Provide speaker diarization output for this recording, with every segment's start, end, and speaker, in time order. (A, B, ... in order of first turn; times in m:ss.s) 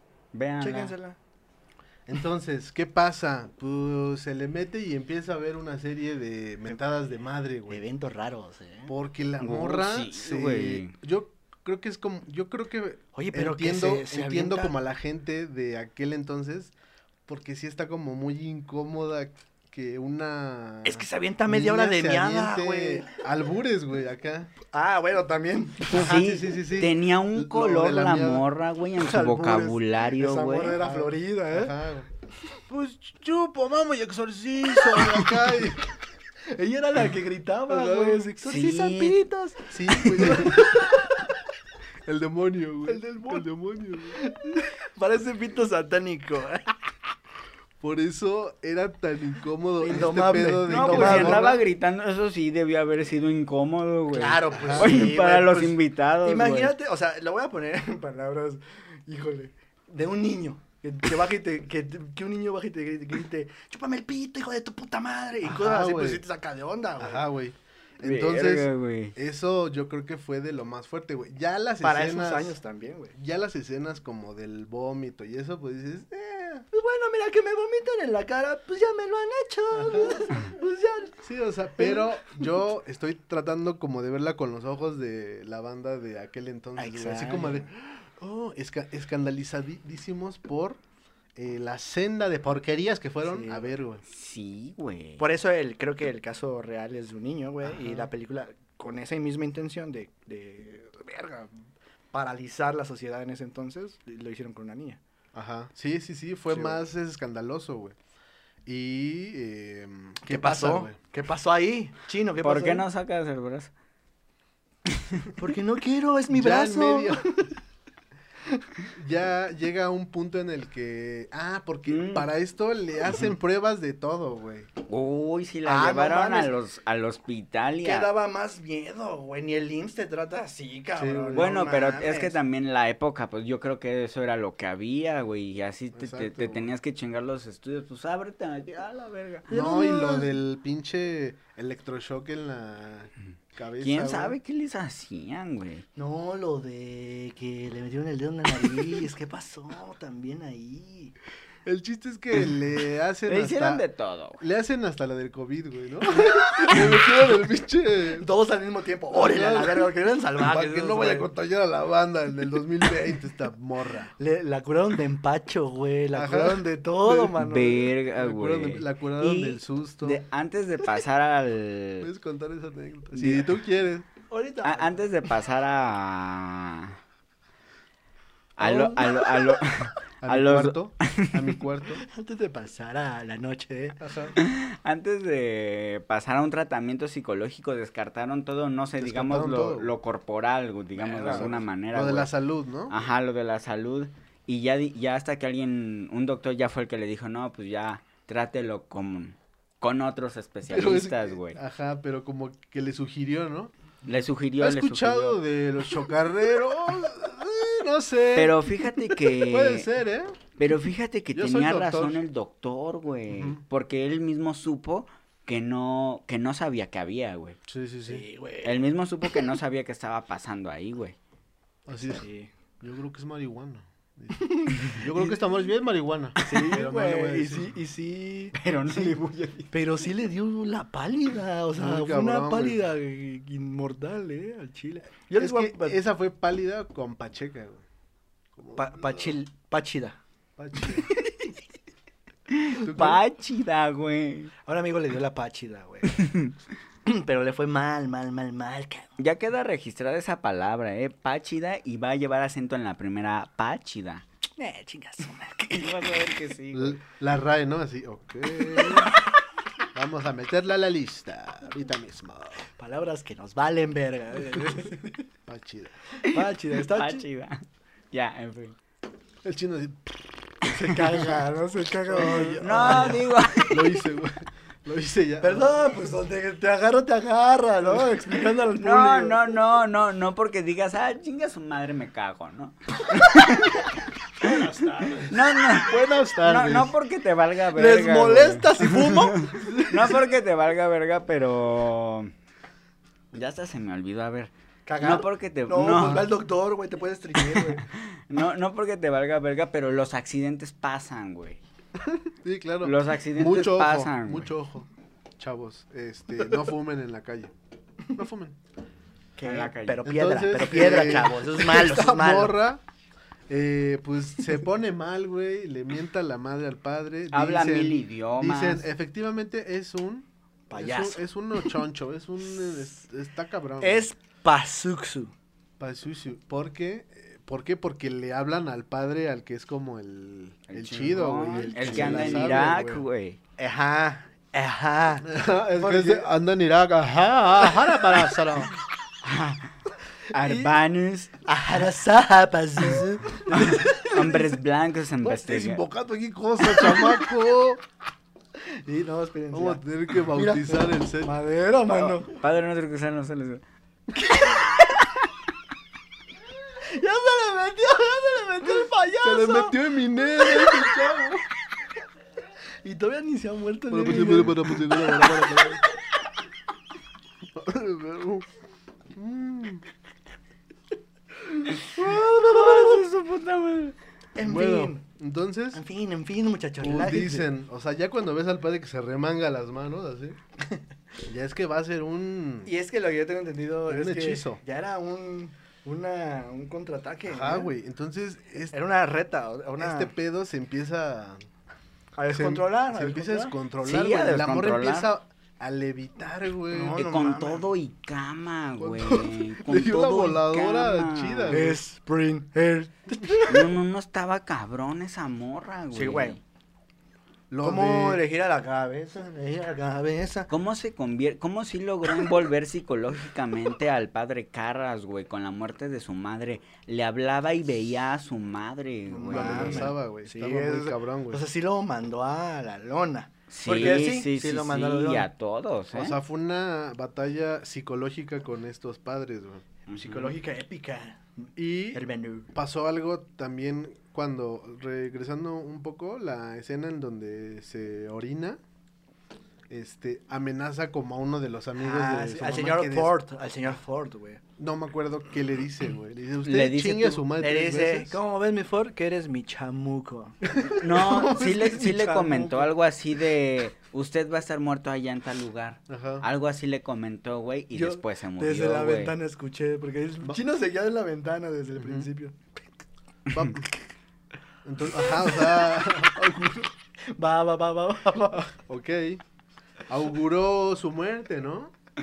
0:00.3-0:00.9 A
0:00.6-0:01.2 B
0:02.1-0:07.8 C
0:07.7-0:08.9 B
0:08.9-0:16.7 C
0:09.4-0:10.9 A
0:13.1-0:14.7 B
0:17.3-0:24.5 C
0:20.8-0:23.1 B
0:24.7-0:26.2 B
0:25.9-0:30.8 A
0:25.9-0:28.4 C
0:29.0-0:31.7 B
0:30.8-0:32.1 C
0:32.7-0:35.8 C
0:36.4-0:41.3 B
0:37.7-0:38.3 C
0:38.4-0:39.2 A
0:39.7-0:40.8 C
0:42.0-0:44.2 C
0:42.9-0:43.5 B
0:44.1-0:46.8 B
0:47.8-0:51.6 C
0:49.8-0:51.6 B
0:50.6-0:56.7 A
0:54.1-1:07.2 B
0:54.5-0:55.0 C
1:05.4-1:06.2 C
1:07.0-1:12.6 C
1:08.0-1:09.1 A
1:11.8-1:13.1 B
1:13.1-1:16.6 C
1:16.7-1:21.2 B
1:19.7-1:20.3 C
1:21.2-1:30.8 C
1:21.8-1:22.4 B
1:26.8-1:27.7 B
1:31.4-1:34.0 C
1:33.2-1:33.7 B
1:34.1-1:35.2 A
1:35.2-1:41.6 B
1:37.6-1:38.1 C
1:42.1-1:45.0 B
1:45.3-1:48.0 C
1:46.5-1:46.8 B
1:48.6-1:51.0 C
1:50.2-1:52.8 B
1:52.4-1:53.7 A
1:54.9-1:55.2 A
1:55.4-1:57.5 B
1:56.3-1:57.3 C
1:58.9-2:04.7 C
2:01.9-2:02.3 A
2:04.9-2:08.1 A
2:05.6-2:06.5 B
2:07.8-2:12.4 B
2:11.0-2:11.6 C
2:11.3-2:19.5 A
2:16.0-2:16.7 C
2:19.5-2:20.3 B
2:19.5-2:24.4 C
2:23.8-2:25.8 A
2:26.0-2:31.1 B
2:31.6-2:33.8 C
2:33.3-2:34.4 A
2:34.4-2:38.3 C
2:36.2-2:36.8 B
2:38.2-2:41.3 B
2:39.1-2:44.1 C
2:44.2-2:47.9 B
2:46.1-2:47.4 C
2:47.4-2:52.1 A
2:48.1-2:50.2 C
2:52.0-2:54.1 C
2:53.2-2:53.4 B
2:54.3-2:55.0 B
2:54.6-2:57.0 A
2:58.6-3:01.5 A
2:58.6-2:59.6 B
3:00.2-3:02.0 C
3:02.0-3:04.0 B
3:04.0-3:04.4 C
3:04.4-3:12.3 A
3:09.0-3:09.9 C
3:11.0-3:11.6 B
3:11.2-3:12.9 C
3:12.9-3:21.6 A
3:20.7-3:23.7 C
3:24.0-3:25.4 A
3:24.6-3:28.6 C
3:28.3-3:29.9 A
3:29.2-3:30.4 C
3:30.6-3:37.6 A
3:31.3-3:32.2 C
3:33.3-3:33.6 C
3:37.7-3:38.2 C
3:38.0-3:38.8 B
3:38.6-3:41.2 A
3:41.9-3:42.2 C
3:42.1-3:42.5 B
3:42.8-3:47.7 C
3:44.3-3:45.3 B
3:46.4-3:49.2 B
3:48.5-3:49.7 A
3:49.7-3:56.0 B
3:51.8-3:52.8 C
3:55.4-3:57.8 C
3:58.5-3:59.3 C
3:58.7-4:00.2 B
4:00.6-4:01.1 C
4:00.8-4:01.5 B
4:02.5-4:04.5 A
4:02.8-4:03.2 C
4:04.6-4:06.3 B
4:06.1-4:06.5 A
4:07.0-4:09.1 B
4:09.2-4:14.2 A
4:14.6-4:16.2 B
4:15.7-4:17.0 A
4:16.7-4:19.1 C
4:19.9-4:22.7 C
4:22.7-4:25.3 B
4:25.4-4:26.0 C
4:26.2-4:27.2 B
4:26.2-4:28.8 A
4:29.4-4:30.3 C
4:30.6-4:33.3 B
4:32.1-4:35.7 C
4:32.2-4:34.0 A
4:35.4-4:39.4 B
4:38.8-4:43.9 A
4:44.4-4:45.4 B
4:45.2-4:52.3 A
4:45.8-4:46.9 C
4:47.7-4:50.2 B
4:53.3-4:56.3 A
4:54.8-4:57.9 B
4:55.9-4:56.3 C
4:57.5-5:01.6 A
5:02.0-5:07.5 C
5:02.8-5:04.5 A
5:08.1-5:08.6 C
5:09.4-5:12.6 B
5:09.4-5:10.0 A
5:10.0-5:12.8 C
5:13.5-5:24.1 C
5:17.3-5:18.8 A
5:20.7-5:21.2 B
5:23.8-5:25.3 B
5:25.8-5:33.0 C
5:30.7-5:33.4 A
5:31.6-5:32.8 B
5:33.6-5:36.3 B
5:35.2-5:38.7 C
5:39.2-5:39.7 A
5:40.3-5:40.7 B
5:40.3-5:41.3 A
5:41.4-5:44.6 B
5:43.5-5:45.8 A
5:45.3-5:45.8 B
5:45.3-5:47.8 C
5:46.6-5:47.2 B
5:48.6-5:52.4 B
5:49.5-5:51.3 C
5:51.9-5:53.6 A
5:54.1-5:55.0 B
5:56.8-5:59.8 B
5:59.2-6:01.5 C
6:00.5-6:00.8 B
6:02.8-6:05.7 B
6:03.9-6:05.8 C
6:07.5-6:08.5 C
6:09.1-6:09.8 C
6:11.4-6:13.0 B
6:12.0-6:13.9 A
6:14.3-6:15.0 B
6:14.4-6:15.8 C
6:15.7-6:17.5 B
6:16.8-6:20.4 C
6:21.2-6:22.7 C
6:22.6-6:27.7 B
6:23.9-6:24.6 C
6:27.3-6:28.8 C
6:28.7-6:30.1 B
6:29.8-6:31.4 C
6:32.2-6:33.6 B
6:32.3-6:37.0 C
6:33.8-6:35.1 A
6:36.7-6:37.7 B
6:36.9-6:41.6 A
6:38.8-6:41.8 C
6:41.5-6:43.7 B
6:43.4-6:46.4 A
6:45.9-6:46.4 B
6:47.5-6:48.2 C
6:47.6-6:50.5 B
6:50.5-6:59.9 A
6:59.1-7:05.3 B
6:59.3-7:01.4 C
7:03.5-7:06.2 A
7:03.7-7:04.0 C
7:05.9-7:09.6 C
7:09.9-7:10.3 A
7:09.9-7:12.5 B
7:11.6-7:18.6 C
7:19.7-7:23.2 C
7:21.8-7:24.4 B
7:24.6-7:28.2 C
7:26.4-7:27.2 A
7:27.4-7:30.4 B
7:30.4-7:31.0 C
7:30.8-7:39.1 A
7:30.9-7:32.7 B
7:35.9-7:36.2 C
7:37.7-7:42.6 B
7:41.8-7:42.1 C
7:43.3-7:43.6 A
7:43.3-7:43.7 C
7:44.6-7:46.7 C
7:47.0-7:48.5 B
7:48.3-7:49.2 C
7:49.9-7:51.7 C